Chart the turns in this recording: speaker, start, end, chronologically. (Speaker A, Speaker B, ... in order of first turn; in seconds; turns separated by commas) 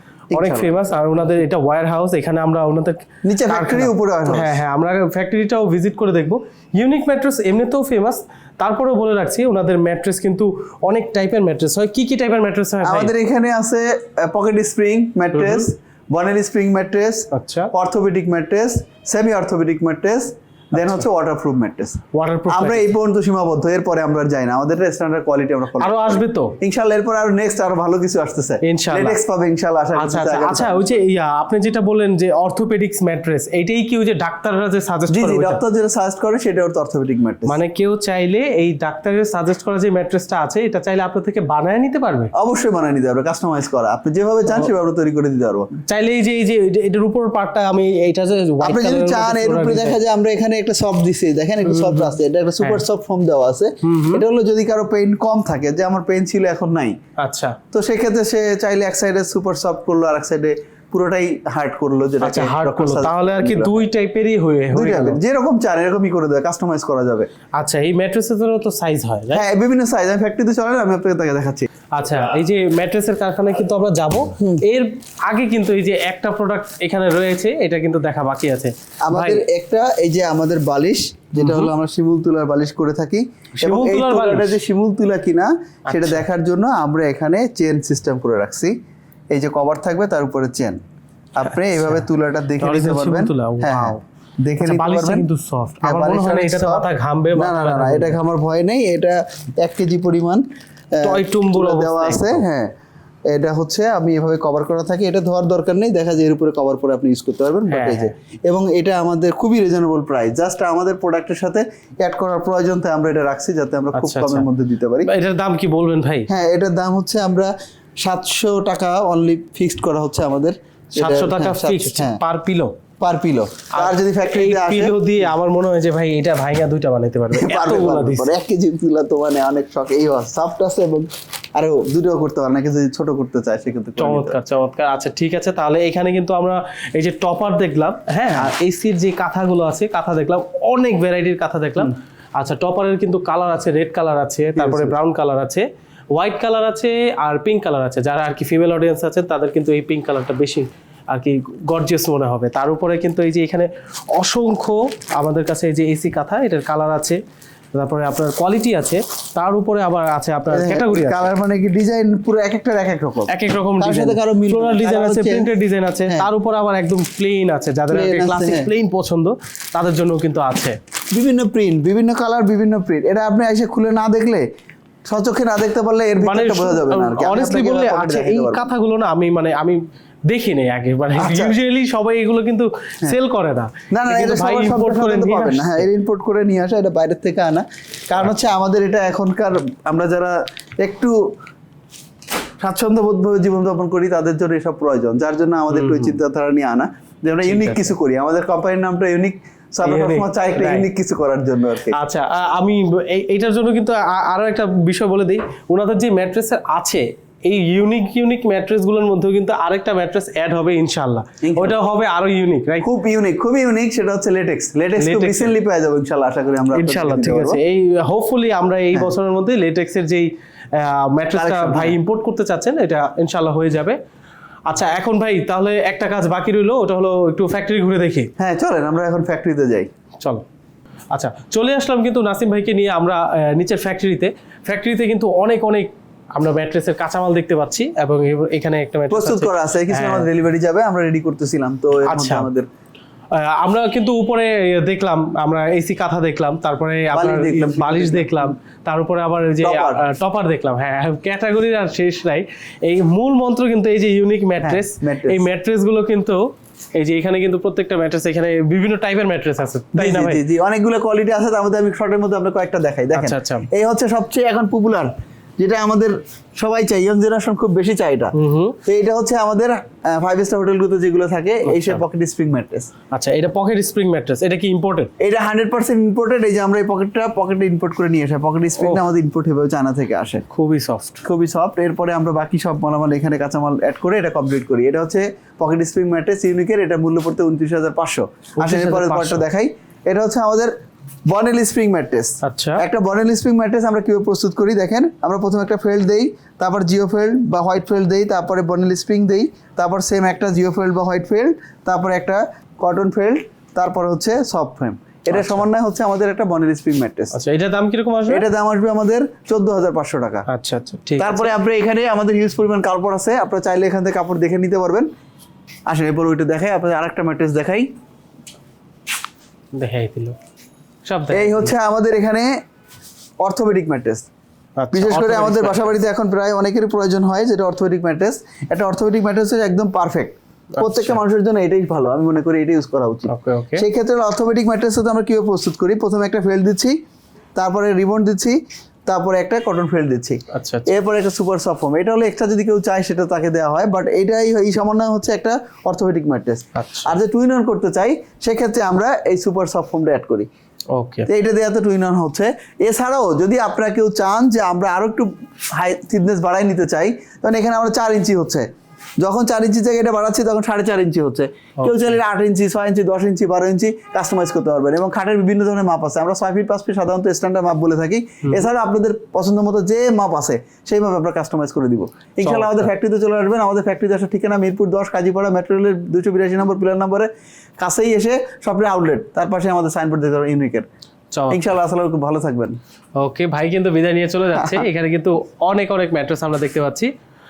Speaker A: 0.3-0.8, Speaker B: 0.3-13.1, Speaker A: 3.2-4.6, Speaker A: 12.8-31.0, Speaker B: 15.3-15.7, Speaker B: 17.3-17.7, Speaker B: 20.8-21.0, Speaker B: 22.1-22.9, Speaker B: 25.8-26.6, Speaker B: 28.6-29.2, Speaker B: 29.9-35.6, Speaker A: 35.1-37.6, Speaker B: 37.5-42.3, Speaker A: 42.4-45.7, Speaker B: 45.9-50.0, Speaker A: 48.6-57.0, Speaker B: 51.6-52.8, Speaker B: 53.8-54.2, Speaker B: 57.2-57.5, Speaker A: 57.7-63.7, Speaker B: 62.2-65.2, Speaker A: 64.7-67.3, Speaker B: 67.6-69.4, Speaker A: 69.3-71.7, Speaker B: 71.9-79.4, Speaker A: 74.4-74.6, Speaker A: 79.0-88.7, Speaker B: 81.4-81.7, Speaker B: 83.6-84.6, Speaker B: 85.9-86.2, Speaker A: 89.3-90.8, Speaker A: 91.3-95.3, Speaker B: 91.4-92.0, Speaker B: 92.6-94.0, Speaker B: 94.6-98.2, Speaker A: 95.8-102.7, Speaker B: 101.0-102.4, Speaker A: 103.3-115.1, Speaker B: 107.7-108.1, Speaker B: 113.9-114.5, Speaker B: 115.0-116.3, Speaker A: 116.3-117.5, Speaker A: 118.0-122.2, Speaker B: 121.0-122.8, Speaker A: 123.0-125.0, Speaker B: 123.7-128.3, Speaker A: 127.3-134.4, Speaker B: 134.0-157.2, Speaker A: 144.6-144.9, Speaker B: 157.7-161.3, Speaker A: 160.5-165.5, Speaker B: 163.3-170.8, Speaker A: 167.9-168.7, Speaker A: 171.1-174.4, Speaker A: 175.1-178.7, Speaker B: 176.2-185.9, Speaker A: 181.2-181.6, Speaker A: 183.9-191.2, Speaker A: 192.6-202.0, Speaker B: 195.7-196.2, Speaker B: 197.4-197.9, Speaker B: 199.8-200.9, Speaker B: 201.9-212.8, Speaker A: 211.4-211.8, Speaker A: 212.8-217.6, Speaker B: 215.0-215.5, Speaker B: 216.7-224.0, Speaker A: 221.3-222.0, Speaker B: 224.7-228.3, Speaker A: 228.4-229.9, Speaker B: 230.2-230.4, Speaker B: 231.1-240.3, Speaker A: 239.1-242.7, Speaker B: 242.1-242.5, Speaker B: 243.3-260.4, Speaker A: 247.1-248.5, Speaker A: 249.6-250.0, Speaker A: 254.6-255.4, Speaker A: 259.9-272.9, Speaker B: 263.1-263.7, Speaker B: 268.3-268.8, Speaker B: 271.6-272.0, Speaker B: 273.1-275.1, Speaker A: 275.2-280.4, Speaker B: 278.8-279.1, Speaker B: 280.5-281.2, Speaker A: 281.2-290.7, Speaker B: 288.6-289.4, Speaker A: 291.3-307.3, Speaker B: 292.4-292.8, Speaker B: 305.3-305.7, Speaker B: 307.3-308.4, Speaker A: 308.3-310.4, Speaker B: 310.5-311.5, Speaker A: 311.2-315.1, Speaker A: 315.9-317.9, Speaker B: 319.8-320.4, Speaker B: 321.0-321.7, Speaker A: 321.3-322.5, Speaker A: 323.4-324.3, Speaker B: 324.8-326.0, Speaker A: 324.9-337.0, Speaker B: 330.7-331.2, Speaker B: 333.3-333.9, Speaker A: 337.6-350.5, Speaker B: 340.5-340.9, Speaker B: 346.7-347.1, Speaker B: 350.9-351.3, Speaker A: 351.3-358.7, Speaker A: 359.2-380.9, Speaker B: 361.8-362.2, Speaker B: 372.4-372.9, Speaker B: 381.3-381.7, Speaker A: 381.5-382.8, Speaker B: 383.2-387.1, Speaker A: 384.6-384.8